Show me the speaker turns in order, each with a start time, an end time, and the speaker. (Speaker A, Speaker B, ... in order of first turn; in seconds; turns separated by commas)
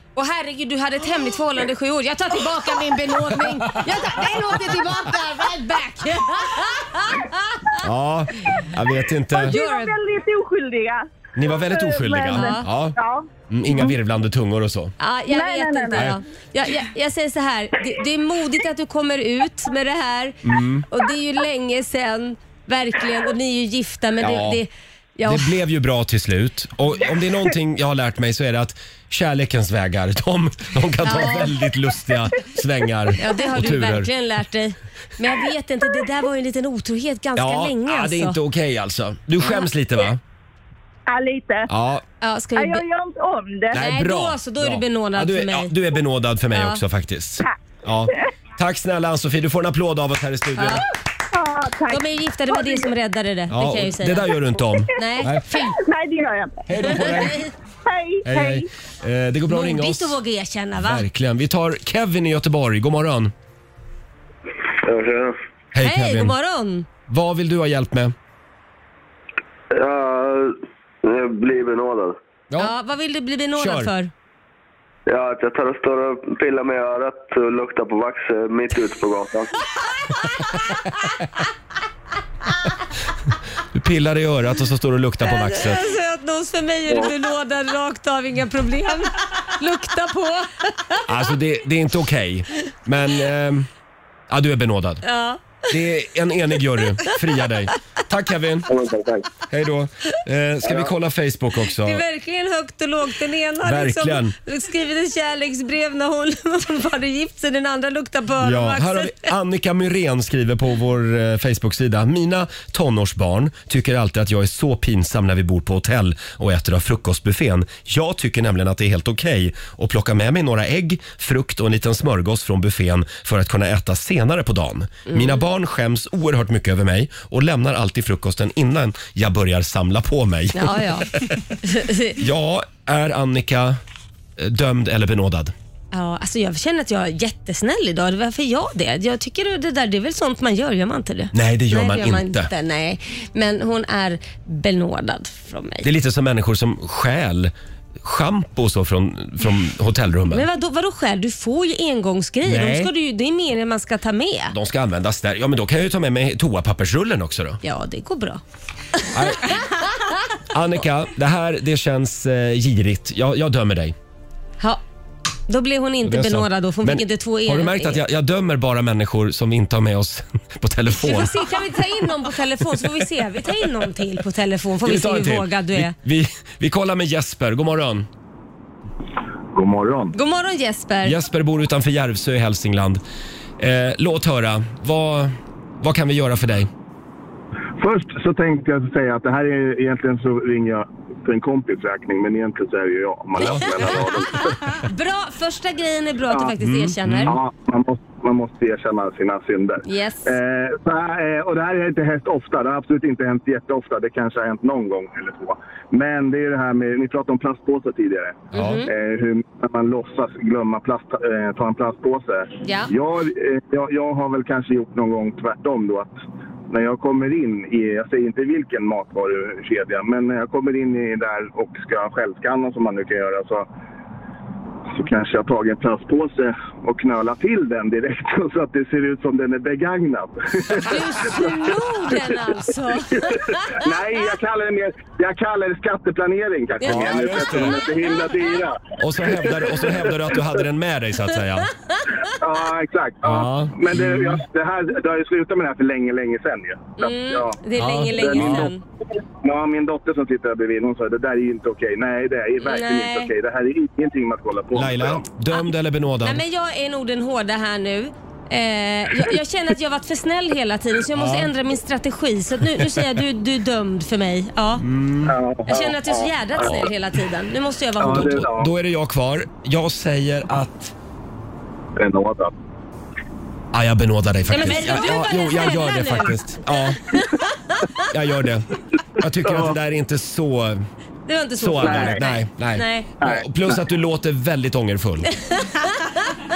Speaker A: 0.1-7.8, Speaker B: 7.8-9.5, Speaker A: 9.4-9.9, Speaker C: 9.4-13.3, Speaker B: 11.3-13.0, Speaker A: 12.3-12.7, Speaker B: 13.5-14.9, Speaker A: 15.0-25.5, Speaker C: 15.3-16.1, Speaker B: 20.4-20.9, Speaker B: 24.2-24.6, Speaker B: 25.2-34.1, Speaker A: 31.0-31.6, Speaker A: 33.2-38.4, Speaker B: 37.4-40.2, Speaker C: 41.1-41.7, Speaker B: 41.7-42.0, Speaker A: 42.2-42.8, Speaker C: 42.5-43.8, Speaker B: 43.7-50.9, Speaker A: 43.7-45.7, Speaker A: 46.5-46.8, Speaker A: 50.6-50.8, Speaker C: 51.3-52.9, Speaker A: 51.9-54.3, Speaker B: 53.5-55.5, Speaker A: 55.0-55.8, Speaker C: 55.5-57.3, Speaker B: 56.7-57.4, Speaker A: 56.9-57.5, Speaker C: 57.9-58.7, Speaker B: 58.2-60.2, Speaker A: 59.5-61.0, Speaker B: 60.8-63.3, Speaker D: 64.8-65.3, Speaker B: 65.7-66.3, Speaker A: 65.8-66.9, Speaker B: 67.1-68.1, Speaker D: 69.7-72.2, Speaker A: 72.6-74.1, Speaker B: 73.5-73.9, Speaker D: 75.1-79.5, Speaker A: 80.0-80.8, Speaker B: 83.7-85.8, Speaker A: 85.2-91.0, Speaker B: 91.0-93.7, Speaker B: 94.3-95.0, Speaker A: 95.0-95.6, Speaker B: 95.7-98.7, Speaker D: 98.7-99.3, Speaker B: 99.4-102.0, Speaker A: 101.8-109.3, Speaker B: 103.6-104.3, Speaker B: 108.4-131.4, Speaker A: 125.1-125.4, Speaker A: 130.5-131.1, Speaker A: 131.6-132.2, Speaker B: 132.1-133.8, Speaker B: 134.4-135.5, Speaker A: 135.9-145.9, Speaker B: 141.3-142.5, Speaker B: 145.8-150.5, Speaker A: 150.3-154.6, Speaker B: 152.4-152.9, Speaker B: 154.5-157.6, Speaker A: 157.6-158.4, Speaker A: 159.0-160.1, Speaker B: 159.1-159.6, Speaker B: 160.5-163.9, Speaker A: 165.5-168.0, Speaker B: 166.0-171.4, Speaker A: 170.9-175.9, Speaker B: 174.8-178.1, Speaker E: 179.5-180.1, Speaker A: 180.1-181.2, Speaker B: 181.0-183.0, Speaker B: 183.6-186.7, Speaker E: 187.8-194.8, Speaker B: 193.4-194.1, Speaker A: 193.4-197.3, Speaker B: 196.6-197.4, Speaker E: 197.2-216.1, Speaker A: 199.8-200.3, Speaker B: 208.5-208.8, Speaker A: 208.5-208.9, Speaker A: 212.6-212.9, Speaker E: 216.7-223.7, Speaker E: 224.9-232.5, Speaker A: 230.7-233.8, Speaker E: 233.1-240.1, Speaker A: 236.8-238.3, Speaker B: 236.8-237.8, Speaker B: 239.0-241.7, Speaker E: 242.4-247.6, Speaker B: 243.2-244.4, Speaker A: 247.0-248.8, Speaker B: 247.8-248.7, Speaker E: 248.1-248.7, Speaker E: 249.4-255.2, Speaker A: 252.6-253.3, Speaker B: 254.7-256.4, Speaker A: 256.2-264.8, Speaker B: 261.1-261.5, Speaker B: 264.8-265.4, Speaker E: 265.2-266.2, Speaker A: 265.7-268.4, Speaker B: 266.6-266.9, Speaker E: 268.0-268.7, Speaker B: 268.0-270.9, Speaker E: 271.9-272.5, Speaker B: 273.7-277.1, Speaker A: 274.5-276.4, Speaker A: 277.1-277.8, Speaker B: 278.1-280.8, Speaker E: 279.4-279.8, Speaker A: 281.3-283.1, Speaker B: 281.6-285.3, Speaker E: 281.8-282.2, Speaker E: 283.2-283.8, Speaker A: 285.4-286.3